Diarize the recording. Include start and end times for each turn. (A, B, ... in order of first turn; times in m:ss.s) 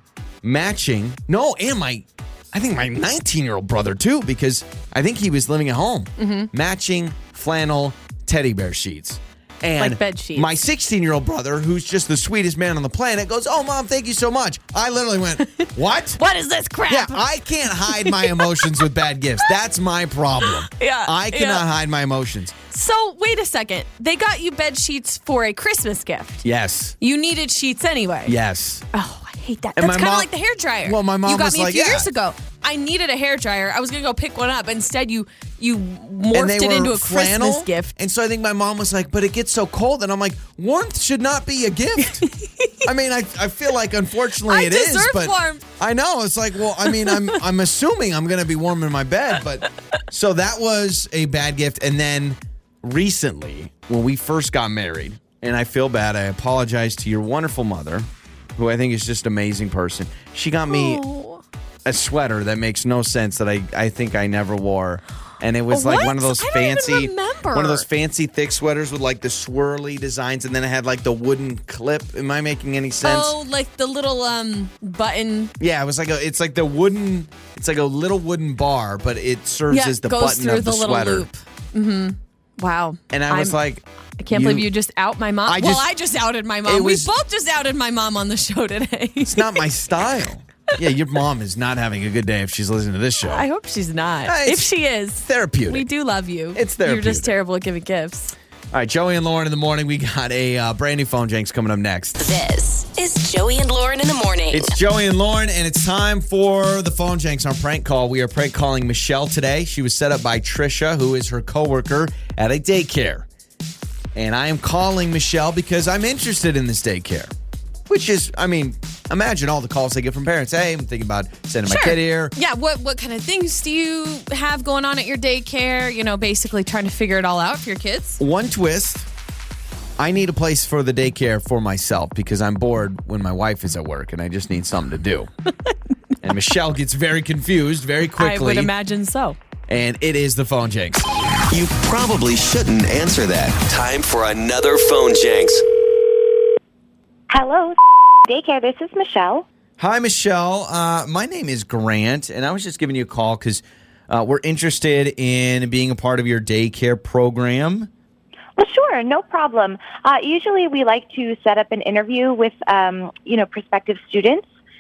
0:00.4-0:16.2 A
0:06.2-0:06.5 B
0:09.8-0:10.5 B
0:15.6-0:18.9 B
0:16.9-0:22.5 A
0:20.4-0:21.6 B
0:22.7-0:26.4 B
0:26.4-0:27.0 A
0:27.0-0:28.3 B
0:28.3-0:28.8 A
0:28.9-0:37.9 B
0:29.8-0:30.3 A
0:30.8-0:32.1 A
0:36.3-0:42.3 A
0:42.2-0:42.9 B
0:42.8-1:01.0 A
0:44.5-0:45.7 B
0:46.8-0:47.4 B
1:00.7-1:01.4 B
1:01.8-1:13.3 A
1:05.7-1:07.8 B
1:13.0-1:15.5 B
1:15.6-1:21.3 A
1:19.7-1:23.6 B
1:23.1-1:24.7 A
1:24.2-1:29.6 B
1:25.5-1:25.9 A
1:26.6-1:27.1 A
1:29.3-1:33.4 A
1:33.2-1:38.3 B
1:34.2-1:35.8 A
1:36.5-1:37.3 A
1:38.7-1:42.2 A
1:42.2-1:44.8 C
1:44.5-1:53.3 A
1:54.1-1:57.3 A
1:57.9-2:02.3 A
2:01.7-2:08.2 B
2:08.2-2:09.1 A
2:10.0-2:15.3 A
2:16.2-2:18.7 A
2:18.2-2:19.4 B
2:19.7-2:21.1 A
2:21.5-2:25.6 D
2:27.3-2:29.4 E
2:29.8-2:37.9 A
2:38.6-2:44.5 E